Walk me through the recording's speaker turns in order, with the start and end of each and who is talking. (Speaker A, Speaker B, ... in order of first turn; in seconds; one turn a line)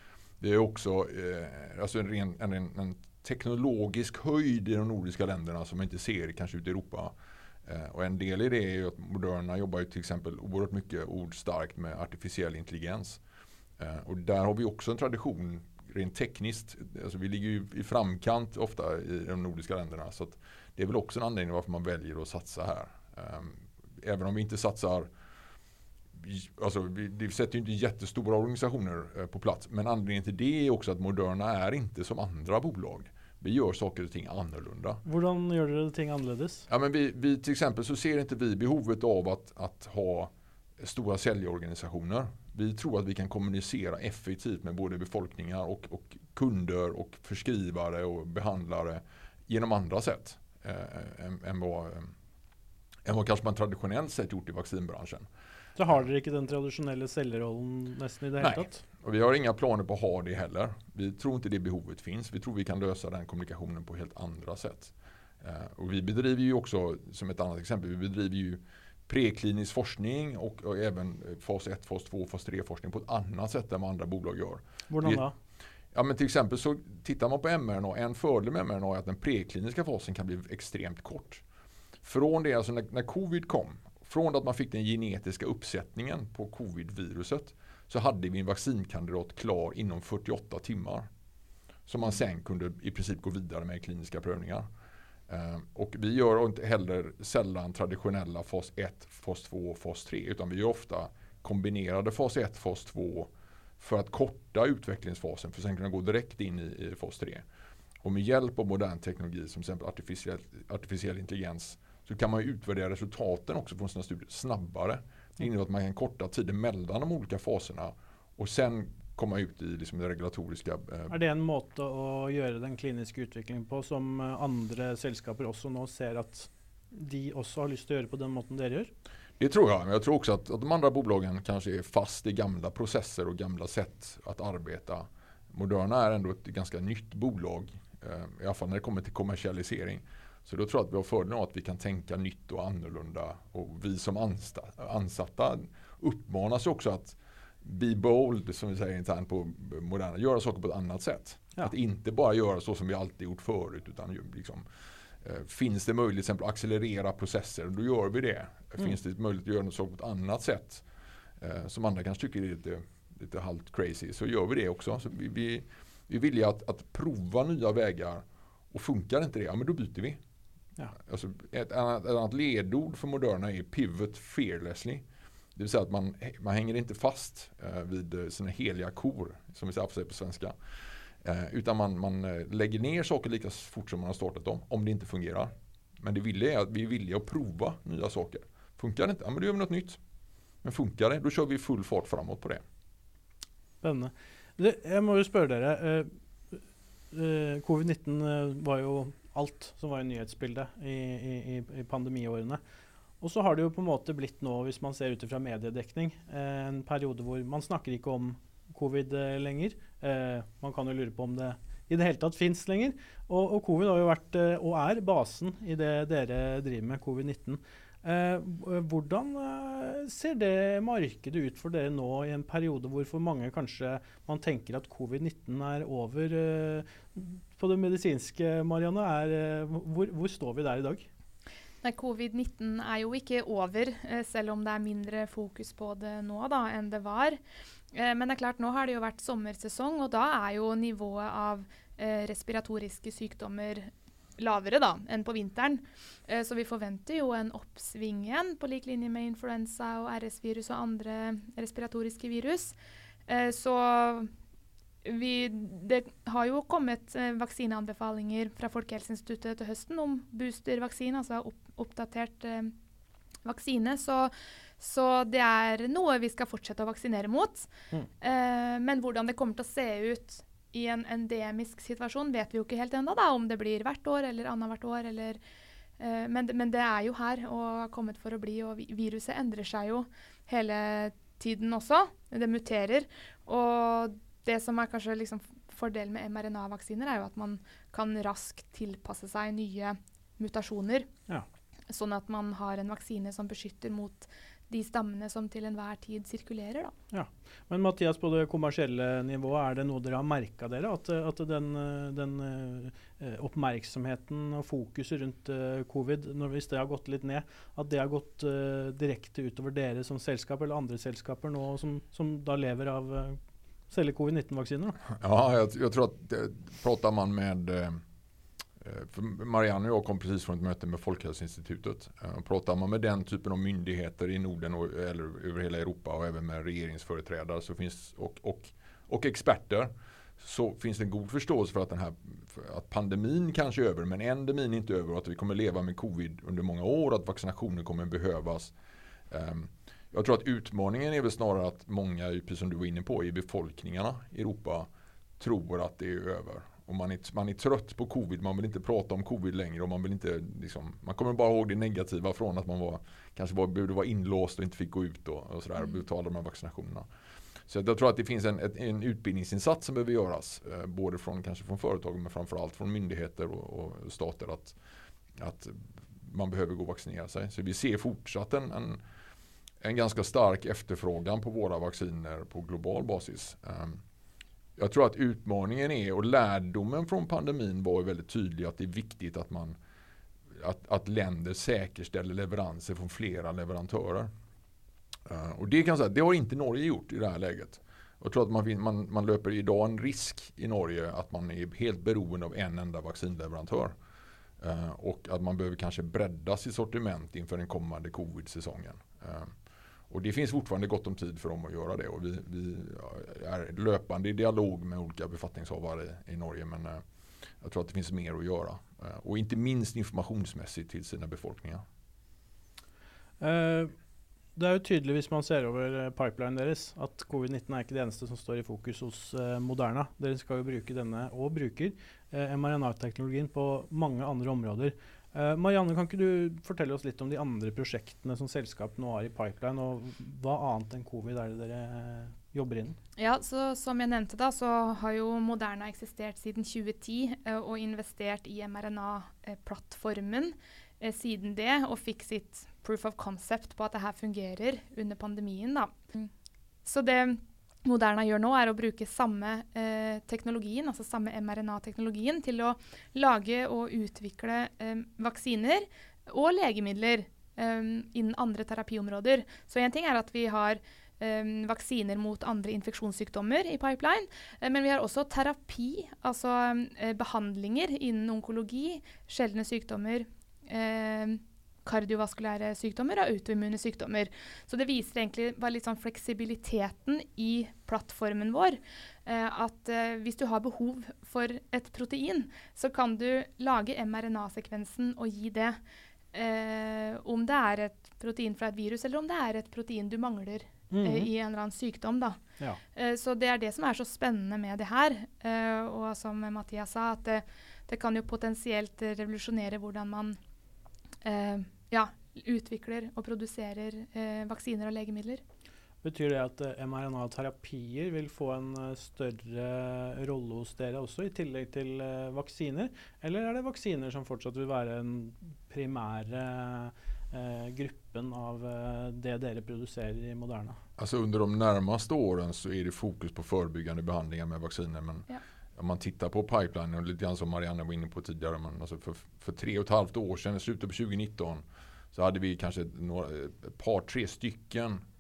Speaker A: 0.4-7.1
Speaker A: 7.7-13.2
Speaker A: 13.8-25.1
Speaker A: 26.1-35.0
Speaker B: 35.0-36.7
Speaker A: 36.7-52.1
Speaker A: 53.0-55.3
Speaker B: 55.8-58.8
Speaker A: 58.4-75.2
Speaker B: 74.9-75.3
Speaker A: 75.9-81.4
Speaker A: 82.0-91.1
Speaker A: 91.9-94.7
Speaker A: 95.3-107.4
Speaker A: 108.0-121.2
Speaker B: 121.1-128.9
Speaker A: 129.4-154.7
Speaker A: 155.2-160.8
Speaker A: 161.4-170.2
Speaker A: 171.0-180.5
Speaker A: 181.2-190.0
Speaker A: 190.6-192.6
Speaker B: 193.8-202.6
Speaker B: 203.2-231.1
Speaker C: 231.8-237.4
Speaker C: 237.9-252.8
Speaker C: 253.3-254.3
Speaker C: 255.0-262.7
Speaker C: 263.4-267.7
Speaker C: 268.2-275.4
Speaker C: 276.0-291.1
Speaker C: 291.9-296.9
Speaker B: 297.1-313.4
Speaker B: 313.9-315.0
Speaker A: 315.2-318.0
Speaker A: 318.8-338.7
Speaker A: 339.3-344.9
Speaker A: 345.4-357.1
Speaker A: 357.7-364.8
Speaker A: 365.4-369.0
Speaker A: 369.8-374.0
Speaker A: 374.8-379.8
Speaker A: 380.6-384.3
Speaker A: 385.3-393.9
Speaker A: 394.6-399.6
Speaker A: 400.1-407.0
Speaker A: 407.6-411.8
Speaker B: 413.4-413.9
Speaker B: 414.6-433.0
Speaker C: 433.2-446.3
Speaker C: 446.9-485.8
Speaker C: 486.3-492.4
Speaker B: 490.9-491.3
Speaker C: 492.9-500.4
Speaker C: 501.2-505.4
Speaker B: 506.0-520.8
Speaker A: 521.0-535.0